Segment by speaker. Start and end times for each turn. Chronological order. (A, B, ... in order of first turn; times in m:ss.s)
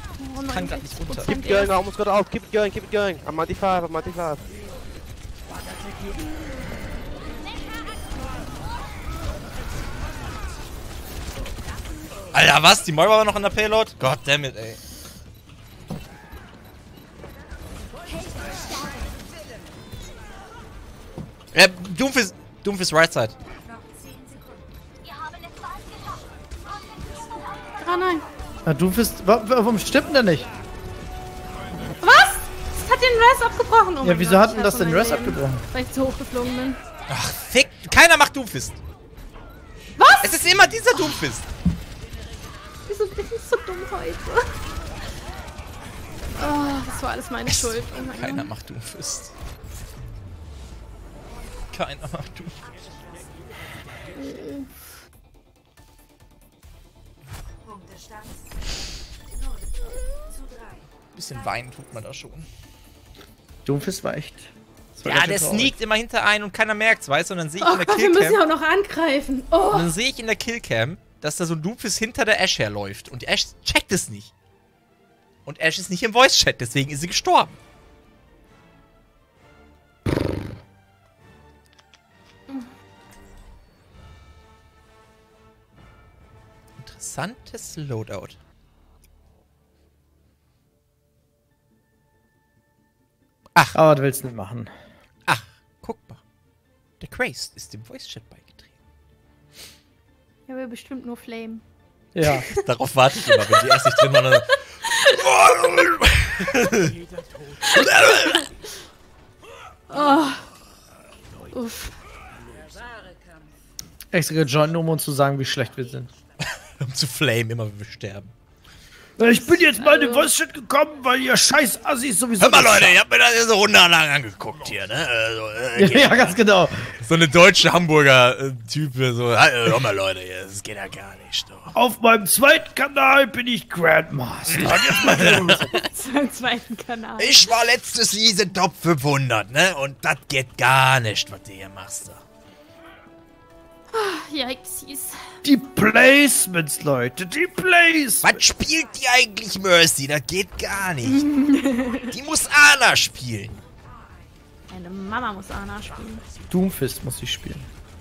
0:00.2-0:01.8 A
0:00.4-0:01.3 B
0:01.3-0:04.5 C
0:12.3-0:14.8 B
0:21.5-0:23.3 B
0:27.8-0:28.2 A
0:28.6-0:30.5 D
0:32.0-0:36.8 A
0:34.0-0:35.6 D
0:37.1-0:38.8 B
0:40.0-0:40.4 A
0:40.2-0:41.4 B
0:42.9-0:44.5 A
0:46.4-0:48.5 A
0:47.5-0:49.3 B
0:51.7-0:52.6 B
0:54.2-0:54.7 A
1:01.1-1:02.5 B
1:03.6-1:05.7 D
1:05.0-1:08.4 B
1:07.6-1:09.9 A
1:09.7-1:14.3 B
1:15.4-1:17.6 B
1:26.8-1:28.4 B
1:33.7-1:34.7 D
1:35.3-1:36.2 B
1:37.0-1:38.7 B
1:40.5-1:41.6 A
1:42.1-1:42.4 D
1:42.4-1:42.6 A
1:42.6-1:47.0 B
1:43.3-1:45.1 A
1:47.6-1:48.4 A
1:47.7-1:48.5 B
1:49.9-1:50.5 A
1:51.5-1:51.9 A
1:54.1-1:56.1 D
1:56.8-1:58.3 B
1:59.2-2:03.0 D
1:59.2-2:00.3 A
2:02.4-2:06.4 B
2:05.8-2:06.9 D
2:07.0-2:11.7 B
2:11.7-2:15.7 D
2:14.5-2:15.8 B
2:15.7-2:17.4 A
2:17.2-2:22.2 B
2:23.9-2:25.2 A
2:25.4-2:28.4 D
2:28.2-2:31.3 B
2:31.0-2:32.1 A
2:32.0-2:33.6 B
2:34.7-2:36.2 A
2:36.5-2:37.7 D